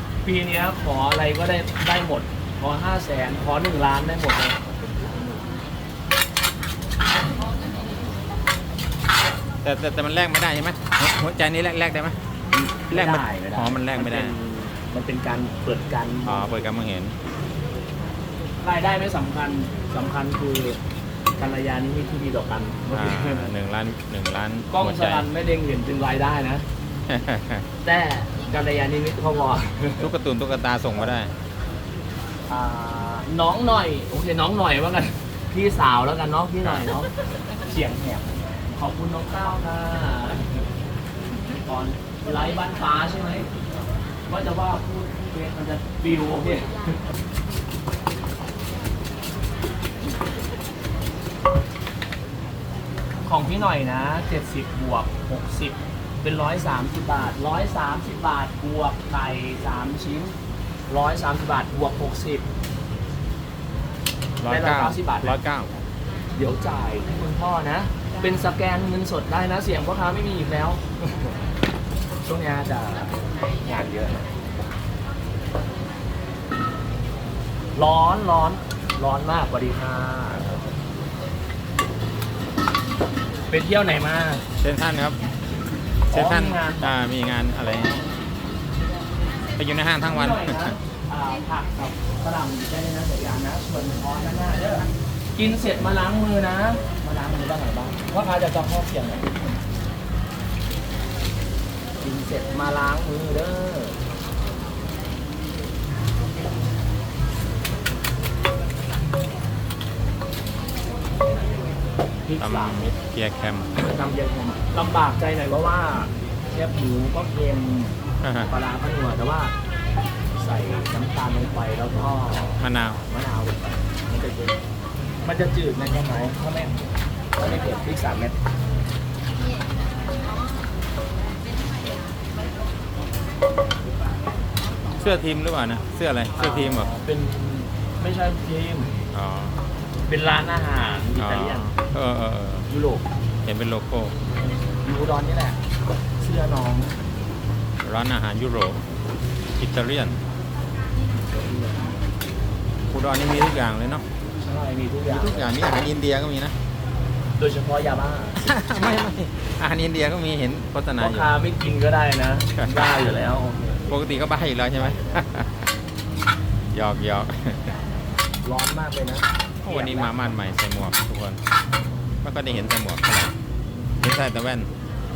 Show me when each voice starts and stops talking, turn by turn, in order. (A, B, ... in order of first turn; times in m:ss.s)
0:00.2-0:05.5 A
0:09.6-0:12.2 B
0:12.5-0:16.6 A
0:12.9-0:14.4 B
0:16.2-0:17.1 B
0:18.6-0:20.8 A
0:21.4-0:23.5 A
0:22.9-0:25.3 B
0:24.7-0:26.6 A
0:27.1-0:27.6 B
0:27.8-0:30.1 A
0:30.0-0:31.3 B
0:32.5-0:37.1 A
0:37.7-0:40.6 A
0:41.6-0:43.5 A
0:44.3-0:47.0 A
0:53.2-1:00.3 A
1:00.9-1:02.4 A
1:04.4-1:05.7 B
1:04.5-1:05.4 A
1:06.4-1:11.4 A
1:12.2-1:14.3 A
1:17.7-1:20.6 A
1:20.3-1:20.6 B
1:23.5-1:24.4 A
1:24.6-1:25.2 B
1:26.1-1:26.9 A
1:26.1-1:28.0 B
1:29.6-1:30.7 B
1:30.0-1:39.3 A
1:42.0-1:44.0 A
1:52.2-1:52.9 A
1:52.4-1:53.7 B
1:53.8-1:58.0 A
1:58.2-1:58.6 B
1:58.5-1:59.5 A
2:00.3-2:04.6 A
2:02.6-2:03.0 B
2:05.2-2:06.8 A
2:07.4-2:08.4 A
2:14.9-2:16.9 B
2:16.4-2:18.9 A
2:19.1-2:19.6 B
2:20.1-2:21.7 A
2:21.2-2:22.6 B
2:22.7-2:23.0 A
2:23.4-2:24.1 B
2:24.8-2:25.6 A
2:26.2-2:26.9 A
2:27.8-2:28.8 B
2:29.6-2:30.2 B
2:31.3-2:32.0 A
2:32.9-2:34.0 B
2:34.4-2:35.5 A
2:35.1-2:36.5 B
2:37.4-2:38.5 A
2:38.4-2:41.3 B
2:41.0-2:43.9 A
2:42.6-2:42.9 B
2:43.9-2:45.7 B
2:44.8-2:45.2 A
2:46.7-2:47.8 B
2:48.4-2:50.2 A
2:49.6-2:51.4 B
2:52.2-2:53.3 B
2:54.0-2:54.7 B